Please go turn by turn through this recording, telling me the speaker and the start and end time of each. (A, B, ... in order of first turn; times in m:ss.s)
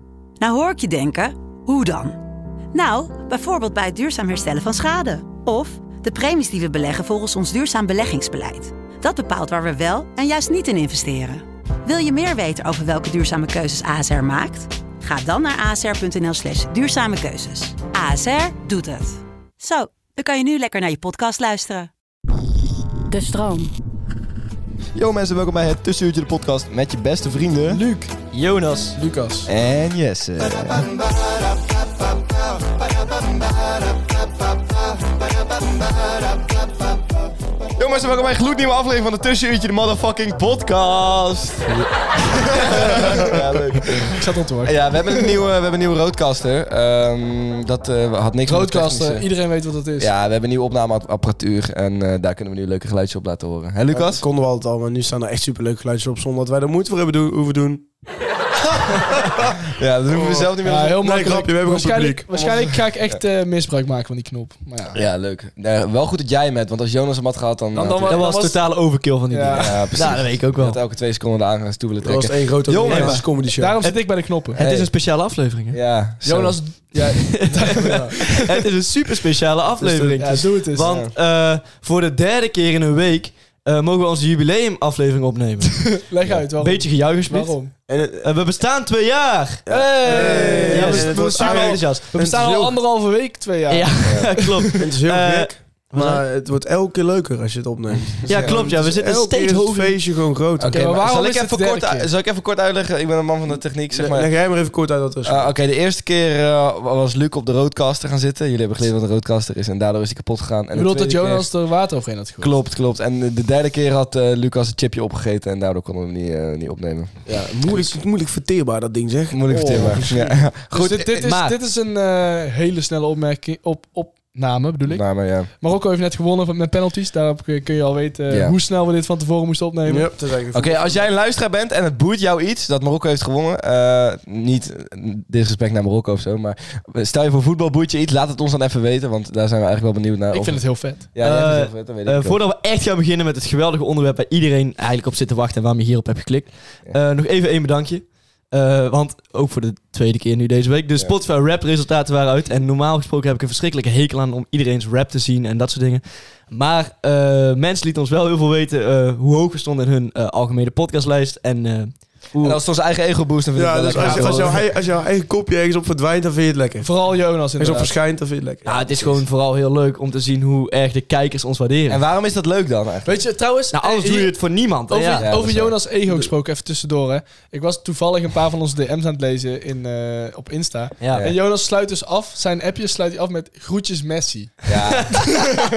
0:00.4-0:02.2 A
0:02.7-0:21.9 A
0:23.1-0:23.7 A
0:24.9-0:27.8 B
0:27.7-0:28.2 C
0:28.3-0:29.0 D
0:28.9-0:29.5 C
0:29.4-0:31.2 B
0:36.1-0:36.5 B
0:37.8-0:49.3 B
0:44.0-0:45.3 C
0:48.4-0:50.1 C
0:50.0-0:54.2 B
0:53.9-0:57.9 E
0:59.3-0:59.5 E
0:59.7-1:01.0 B
1:00.1-1:02.3 E
1:00.6-1:05.0 C
1:04.9-1:08.2 B
1:07.7-1:08.7 C
1:08.0-1:10.8 D
1:09.3-1:09.7 C
1:09.5-1:13.2 B
1:12.0-1:13.8 E
1:12.9-1:13.3 D
1:13.5-1:14.6 C
1:13.8-1:15.8 D
1:14.6-1:14.9 B
1:15.7-1:16.6 B
1:16.2-1:18.4 C
1:17.0-1:26.0 D
1:19.8-1:20.4 E
1:20.2-1:20.9 C
1:20.8-1:21.1 B
1:26.0-1:27.7 C
1:26.6-1:32.2 D
1:27.9-1:28.3 E
1:29.6-1:32.8 E
1:29.7-1:31.4 C
1:30.1-1:31.8 B
1:32.1-1:34.5 C
1:33.7-1:36.2 D
1:34.8-1:40.8 E
1:38.2-1:40.0 D
1:38.3-1:38.7 B
1:40.6-1:44.3 B
1:40.7-1:42.1 C
1:43.9-1:45.5 E
1:45.2-1:51.5 B
1:50.7-1:52.6 C
1:52.4-1:57.2 B
1:57.2-2:00.5 E
1:59.3-2:01.2 B
2:00.7-2:10.1 C
2:01.1-2:01.6 D
2:04.9-2:05.5 B
2:08.3-2:08.6 B
2:09.8-2:11.0 E
2:10.5-2:22.4 B
2:20.3-2:21.1 C
2:21.2-2:42.4 D
2:42.3-2:44.6 B
2:43.5-2:49.2 E
2:43.9-2:44.5 D
2:46.8-2:48.0 C
2:48.6-2:52.0 D
2:51.9-2:53.2 B
2:53.0-3:04.6 C
2:53.7-2:55.3 D
2:55.2-2:55.8 B
3:01.0-3:01.3 D
3:04.7-3:05.2 B
3:04.9-3:05.6 D